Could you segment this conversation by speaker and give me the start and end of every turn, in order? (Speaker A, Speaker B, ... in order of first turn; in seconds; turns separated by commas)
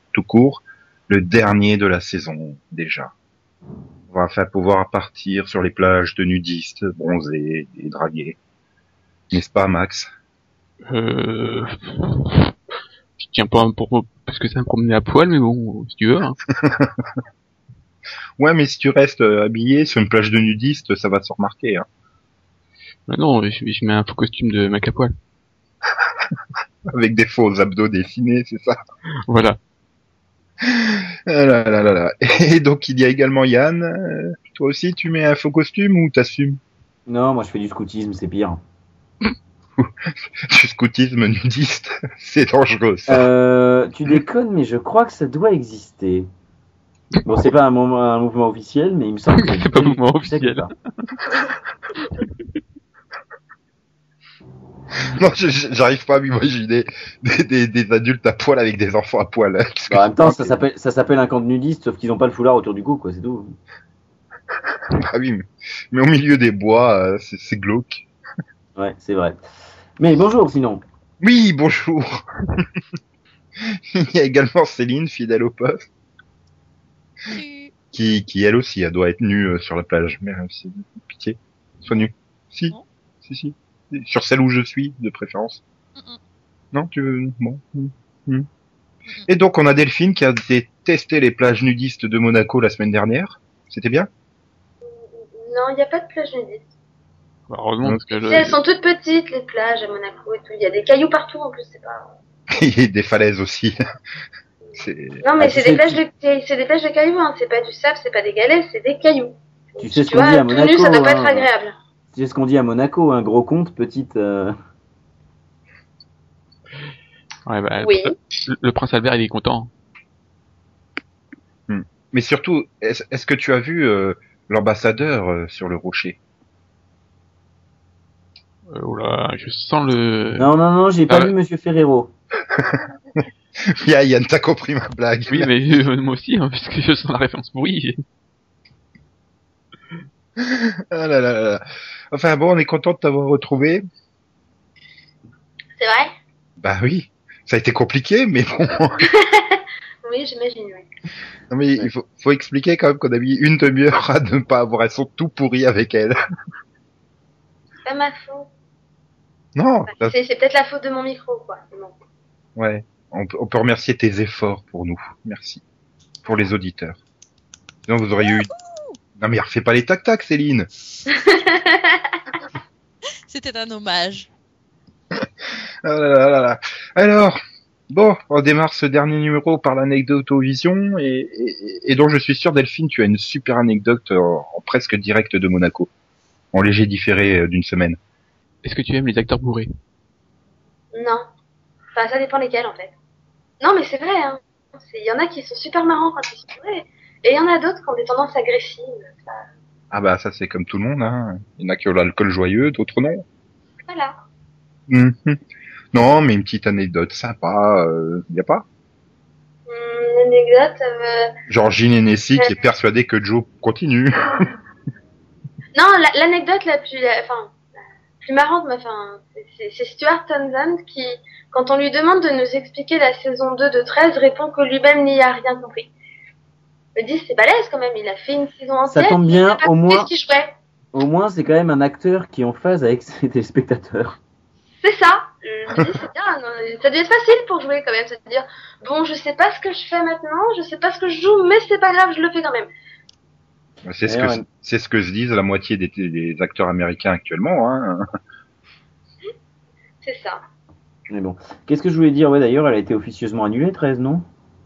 Speaker A: 0.1-3.1, Speaker A: 4.1-8.4, Speaker A: 9.3-10.1, Speaker B: 10.9-12.5, Speaker B: 13.2-16.4, Speaker A: 16.5-17.0, Speaker A: 18.4-21.9, Speaker B: 23.1-25.1, Speaker A: 26.9-28.8, Speaker B: 29.3-29.6, Speaker A: 30.6-36.6, Speaker C: 37.1-38.6, Speaker A: 40.5-43.3, Speaker C: 43.1-46.3, Speaker C: 47.2-50.7, Speaker B: 49.3-50.7, Speaker A: 55.1-60.6, Speaker C: 59.9-63.6, Speaker A: 64.9-68.0, Speaker C: 68.8-69.4, Speaker C: 70.0-70.8, Speaker A: 71.2-72.7, Speaker A: 73.7-75.9, Speaker D: 77.3-77.7, Speaker A: 77.9-85.6, Speaker A: 86.7-88.5, Speaker A: 89.3-94.1, Speaker E: 94.8-96.7, Speaker B: 97.5-98.6, Speaker E: 98.2-102.1, Speaker A: 102.5-103.8, Speaker A: 104.8-105.2, Speaker E: 105.2-111.7, Speaker C: 105.4-106.0, Speaker C: 109.8-111.5, Speaker C: 112.1-114.5, Speaker B: 117.5-119.7, Speaker E: 117.8-118.1, Speaker A: 121.7-126.2, Speaker B: 128.7-130.5, Speaker C: 130.4-132.1, Speaker B: 131.1-131.3, Speaker A: 132.5-132.8, Speaker A: 133.7-135.5, Speaker B: 135.3-138.0, Speaker A: 140.4-143.8, Speaker E: 145.8-146.1, Speaker A: 146.6-149.0, Speaker E: 149.1-150.9, Speaker A: 151.5-156.2, Speaker E: 157.8-158.5, Speaker A: 159.6-160.1, Speaker E: 159.9-161.9, Speaker A: 162.6-165.6, Speaker A: 166.2-167.0, Speaker A: 167.9-168.5, Speaker D: 168.3-169.0, Speaker A: 169.2-170.7, Speaker E: 171.1-172.2, Speaker D: 173.3-174.3, Speaker A: 175.8-177.4, Speaker A: 177.9-185.9, Speaker A: 186.5-188.0, Speaker B: 188.6-189.7, Speaker E: 190.9-191.2, Speaker E: 191.9-192.9, Speaker E: 193.6-199.4, Speaker A: 199.9-203.2, Speaker E: 203.8-204.2, Speaker A: 204.9-205.4, Speaker A: 205.9-208.6, Speaker E: 209.7-211.3, Speaker A: 211.5-214.5, Speaker E: 215.7-217.6, Speaker E: 218.2-225.9, Speaker E: 226.9-230.5, Speaker C: 228.9-230.1, Speaker C: 230.9-234.2, Speaker E: 234.8-242.7, Speaker A: 243.8-248.0, Speaker C: 244.1-244.4, Speaker E: 250.0-250.4, Speaker C: 251.1-254.2